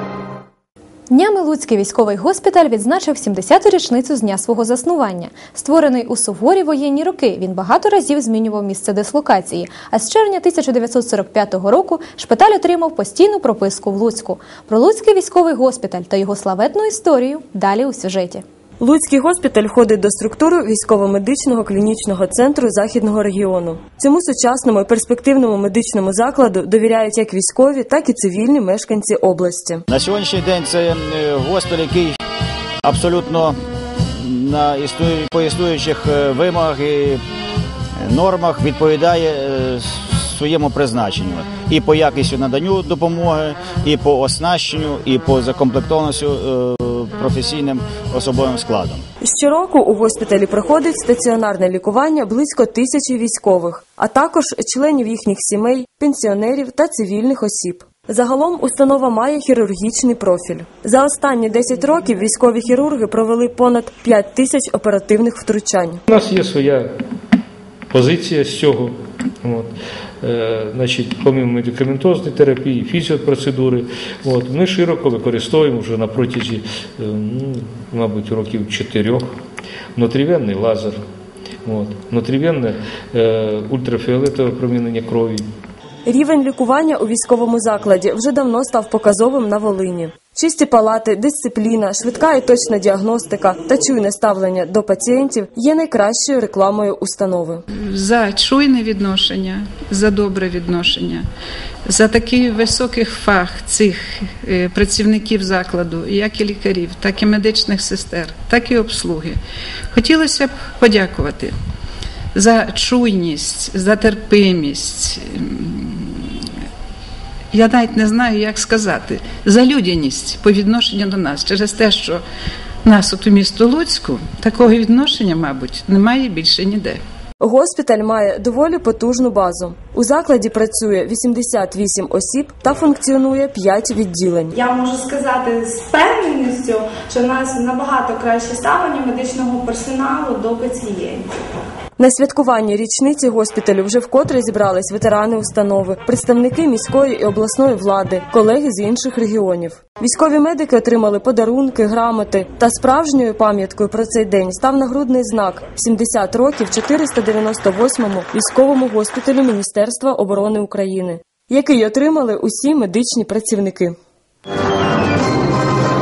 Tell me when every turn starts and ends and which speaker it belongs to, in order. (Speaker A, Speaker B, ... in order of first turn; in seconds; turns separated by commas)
Speaker A: 1.1-18.4, Speaker B: 18.8-29.8, Speaker C: 29.9-32.2, Speaker C: 32.8-33.6, Speaker C: 34.2-37.2, Speaker C: 38.0-49.0, Speaker B: 49.2-66.0, Speaker D: 66.1-66.9, Speaker D: 67.9-79.3, Speaker D: 80.0-81.0, Speaker D: 81.7-85.5, Speaker B: 86.1-97.6, Speaker E: 97.7-101.3, Speaker E: 101.9-109.4, Speaker E: 109.9-111.6, Speaker E: 112.3-116.4, Speaker E: 117.5-122.2, Speaker E: 122.8-127.0, Speaker B: 127.4-134.5, Speaker F: 134.5-141.3, Speaker B: 142.0-163.9